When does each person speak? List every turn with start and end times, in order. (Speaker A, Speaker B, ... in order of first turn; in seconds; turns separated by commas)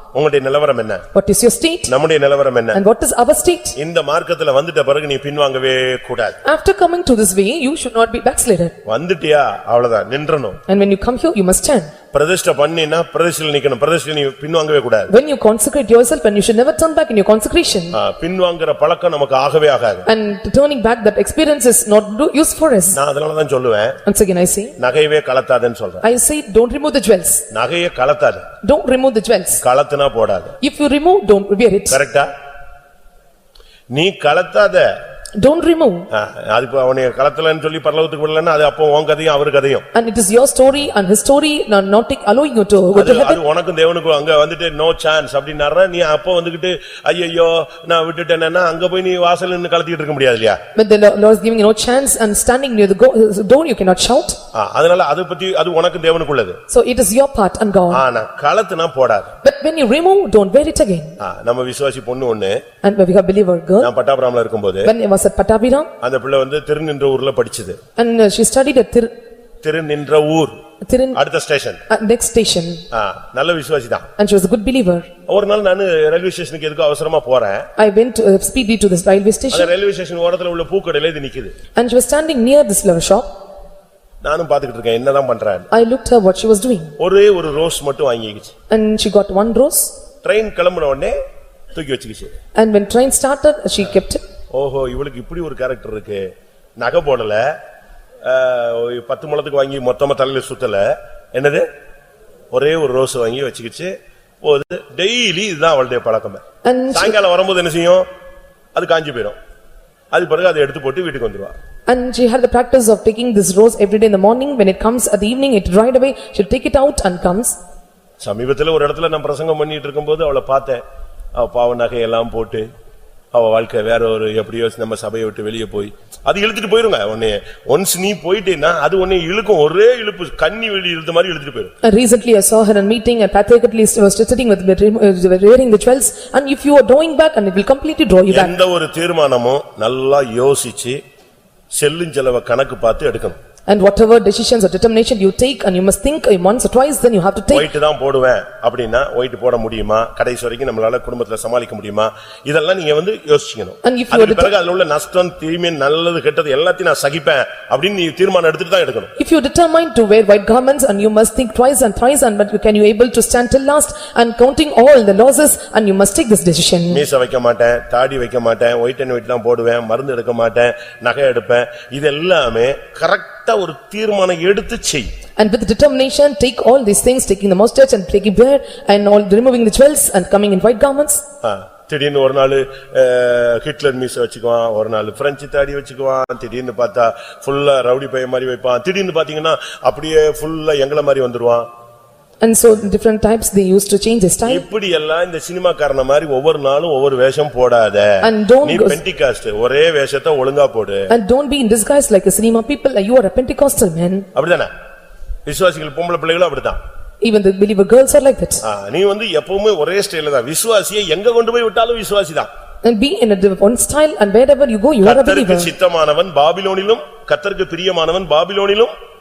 Speaker A: 0.1-1.0, Speaker B: 1.1-1.9, Speaker A: 1.9-2.8, Speaker B: 2.7-3.8, Speaker A: 3.8-6.4, Speaker B: 6.4-8.8, Speaker A: 8.9-10.6, Speaker B: 10.7-11.9, Speaker A: 12.1-15.1, Speaker B: 15.1-18.0, Speaker A: 17.9-20.1, Speaker B: 20.1-23.0, Speaker A: 22.9-24.0, Speaker B: 24.1-24.8, Speaker A: 24.8-26.0, Speaker B: 26.0-27.4, Speaker A: 27.5-28.5, Speaker B: 28.6-29.6, Speaker A: 29.6-30.6, Speaker B: 30.6-32.0, Speaker A: 31.9-32.3, Speaker A: 33.9-34.9, Speaker B: 35.4-36.1, Speaker A: 36.1-39.9, Speaker B: 39.9-43.4, Speaker A: 43.0-50.6, Speaker B: 50.8-54.4, Speaker A: 54.5-56.6, Speaker B: 56.7-58.0, Speaker A: 57.9-59.3, Speaker B: 59.4-61.2, Speaker A: 61.2-62.6, Speaker B: 62.8-63.9, Speaker A: 63.8-64.9, Speaker B: 64.8-65.9, Speaker A: 66.0-67.8, Speaker B: 68.0-69.1, Speaker A: 69.6-70.6, Speaker B: 70.8-71.2, Speaker A: 71.2-71.8, Speaker B: 71.9-72.8, Speaker A: 72.9-74.1, Speaker B: 74.2-75.1, Speaker A: 75.3-77.7, Speaker B: 77.8-79.7, Speaker A: 79.5-81.5, Speaker B: 81.8-83.3, Speaker A: 84.2-85.7, Speaker B: 85.7-86.9, Speaker A: 87.0-88.5, Speaker B: 88.7-89.9, Speaker A: 90.2-91.2, Speaker A: 91.7-92.3, Speaker B: 92.6-94.2, Speaker A: 94.5-96.2, Speaker A: 96.8-97.5, Speaker A: 98.2-101.7, Speaker A: 102.5-108.0, Speaker B: 106.6-107.2, Speaker A: 108.8-109.4, Speaker A: 110.1-111.5, Speaker B: 111.9-117.6, Speaker A: 118.2-120.8, Speaker A: 121.3-122.7, Speaker A: 123.3-131.7, Speaker B: 131.8-138.5, Speaker A: 138.3-141.0, Speaker A: 141.8-143.4, Speaker B: 143.7-147.7, Speaker A: 147.5-159.1, Speaker B: 153.8-154.5, Speaker B: 159.2-167.0, Speaker A: 166.9-175.1, Speaker B: 175.4-181.2, Speaker A: 181.4-191.7, Speaker B: 192.4-194.7, Speaker A: 194.5-201.1, Speaker B: 198.2-199.0, Speaker B: 201.1-204.3, Speaker A: 204.3-204.7, Speaker A: 205.5-206.8, Speaker B: 207.2-208.6, Speaker A: 208.6-212.5, Speaker B: 212.8-215.7, Speaker A: 215.0-218.9